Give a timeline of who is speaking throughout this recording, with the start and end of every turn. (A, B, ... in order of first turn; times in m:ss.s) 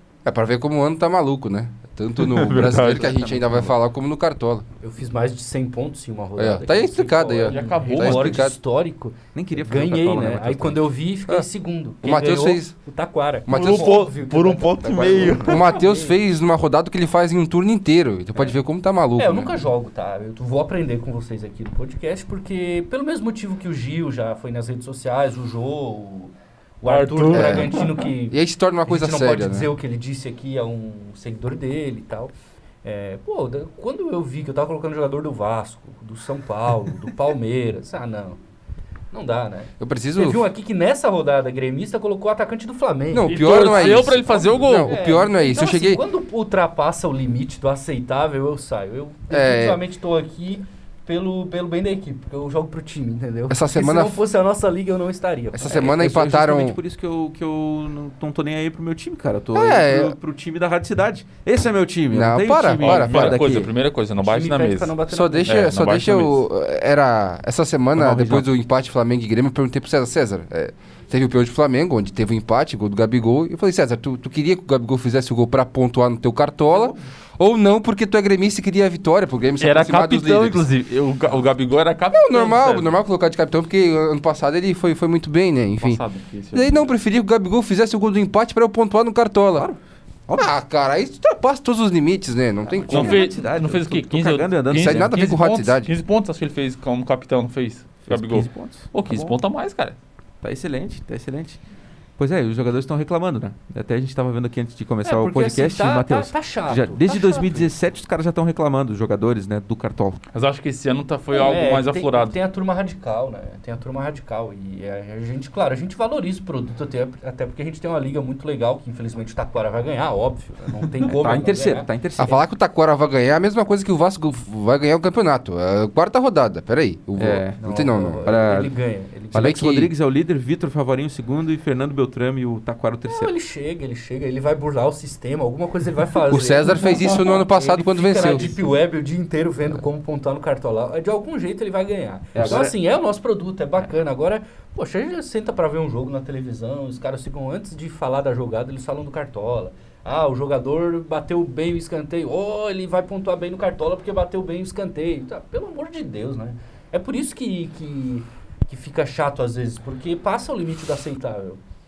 0:00.2-0:04.6 A
0:02.2-0:03.2 B
0:02.7-0:03.7 C
0:04.8-0:16.2 D
0:06.4-0:08.6 A
0:07.5-0:08.5 B
0:09.3-0:10.9 C
0:12.0-0:12.7 A
0:13.5-0:14.0 A
0:13.5-0:15.7 B
0:14.8-0:15.5 C
0:15.3-0:19.6 A
0:19.2-0:32.3 D
0:26.8-0:28.0 B
0:27.3-0:29.7 A
0:32.8-0:38.4 D
0:39.1-0:44.2 D
0:39.8-0:40.5 A
0:43.1-0:46.0 A
0:43.2-0:44.9 B
0:44.8-0:56.0 D
0:49.3-0:49.8 A
0:53.5-0:54.2 A
0:55.5-0:56.8 A
0:55.6-1:03.7 C
0:59.5-1:00.2 A
1:02.1-1:03.4 A
1:02.8-1:06.4 B
1:03.1-1:03.5 D
1:04.2-1:05.7 D
1:05.1-1:20.6 A
1:08.0-1:08.4 C
1:19.6-1:22.9 B
1:22.1-1:26.0 A
1:25.8-1:26.8 B
1:26.5-1:29.7 A
1:29.5-1:30.5 C
1:30.3-1:33.3 A
1:32.7-1:35.1 C
1:32.9-1:40.0 B
1:34.7-1:35.9 A
1:38.1-1:39.4 C
1:40.4-1:41.6 C
1:42.2-1:50.2 C
1:45.0-1:47.7 D
1:50.3-1:52.3 B
1:51.3-2:02.4 D
2:01.2-2:02.4 C
2:02.2-2:08.2 A
2:07.2-2:07.6 C
2:07.6-2:09.6 D
2:08.2-2:08.7 C
2:09.3-2:13.3 C
2:09.3-2:09.9 A
2:13.1-2:41.6 D
2:16.3-2:18.5 A
2:22.3-2:22.7 C